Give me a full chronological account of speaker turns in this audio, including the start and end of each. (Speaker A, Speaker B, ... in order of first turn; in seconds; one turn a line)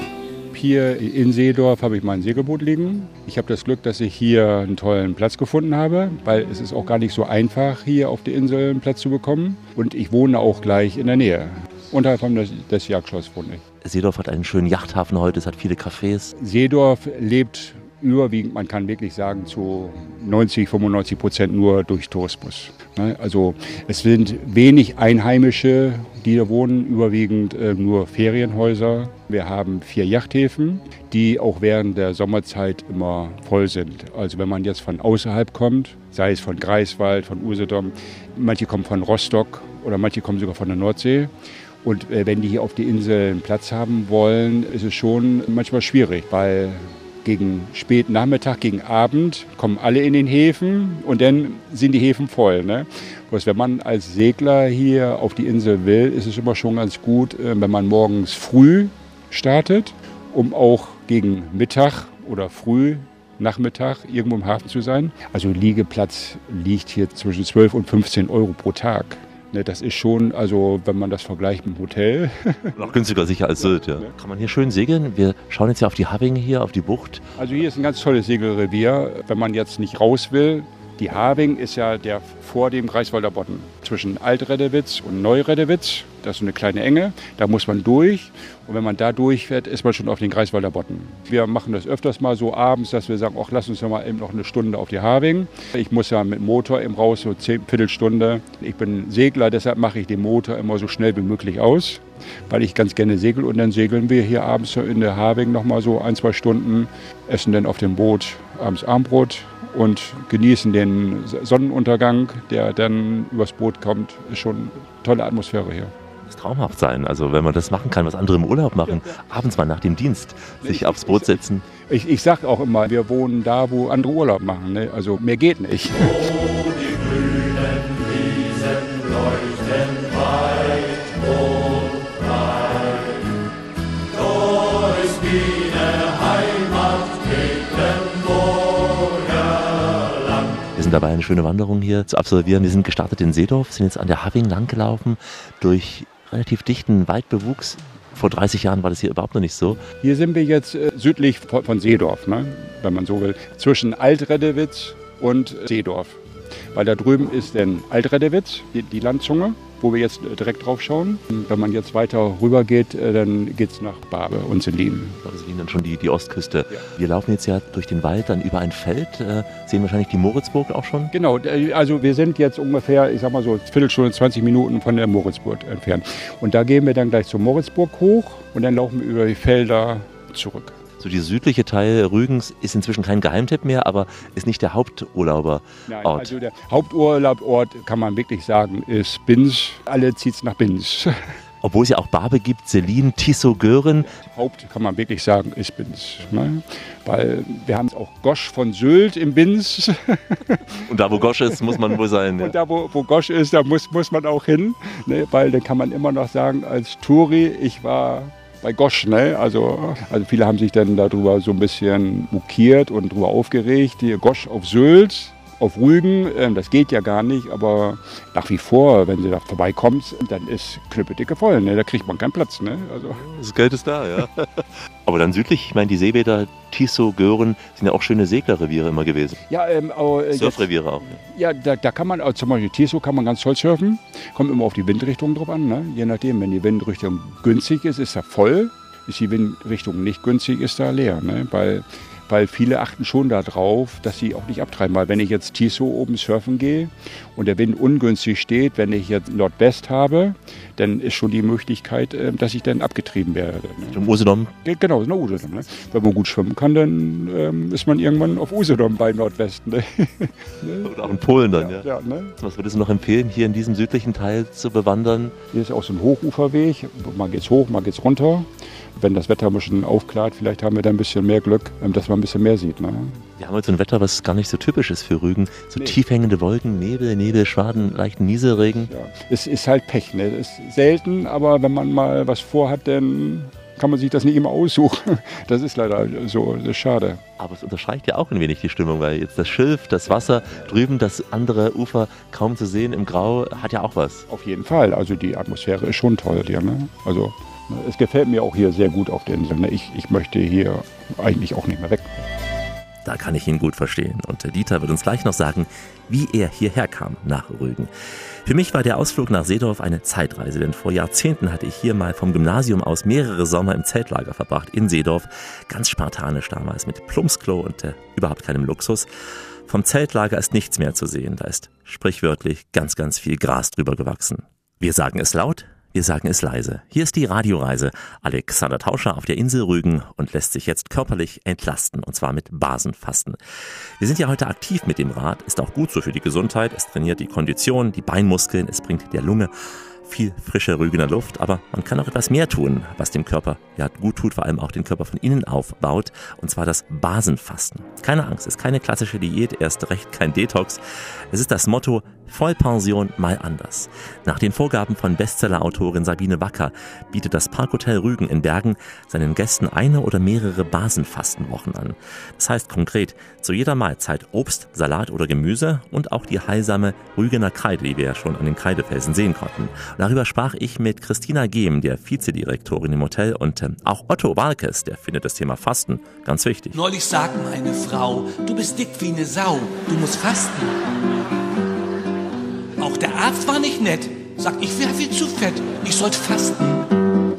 Speaker A: 0.5-13.6
Speaker B: 13.8-16.3
Speaker A: 16.4-41.3
Speaker A: 41.8-72.9
Speaker B: 72.8-77.2
Speaker A: 73.6-74.1
Speaker A: 77.4-115.9
Speaker B: 116.2-121.6
Speaker A: 118.8-119.2
Speaker A: 120.6-126.3
Speaker B: 140.7-149.8
Speaker A: 150.0-156.2
Speaker A: 156.7-165.2
Speaker B: 165.2-171.1
Speaker A: 171.1-180.8
Speaker B: 181.0-186.3
Speaker A: 185.9-191.1
Speaker B: 191.6-194.1
Speaker A: 194.0-223.2
Speaker B: 200.8-202.6
Speaker B: 223.2-229.4
Speaker A: 229.5-254.0
Speaker B: 230.3-231.2
Speaker B: 253.8-254.5
Speaker A: 254.6-262.3
Speaker B: 260.8-261.9
Speaker B: 262.4-265.3
Speaker A: 265.5-273.2
Speaker B: 273.4-278.9
Speaker A: 278.9-287.2
Speaker B: 287.4-294.2
Speaker A: 294.3-302.2
Speaker B: 303.0-307.9
Speaker B: 308.4-319.1
Speaker B: 319.7-333.4
Speaker B: 334.0-339.5
Speaker B: 340.0-376.8
Speaker C: 376.7-380.7
Speaker C: 382.8-386.9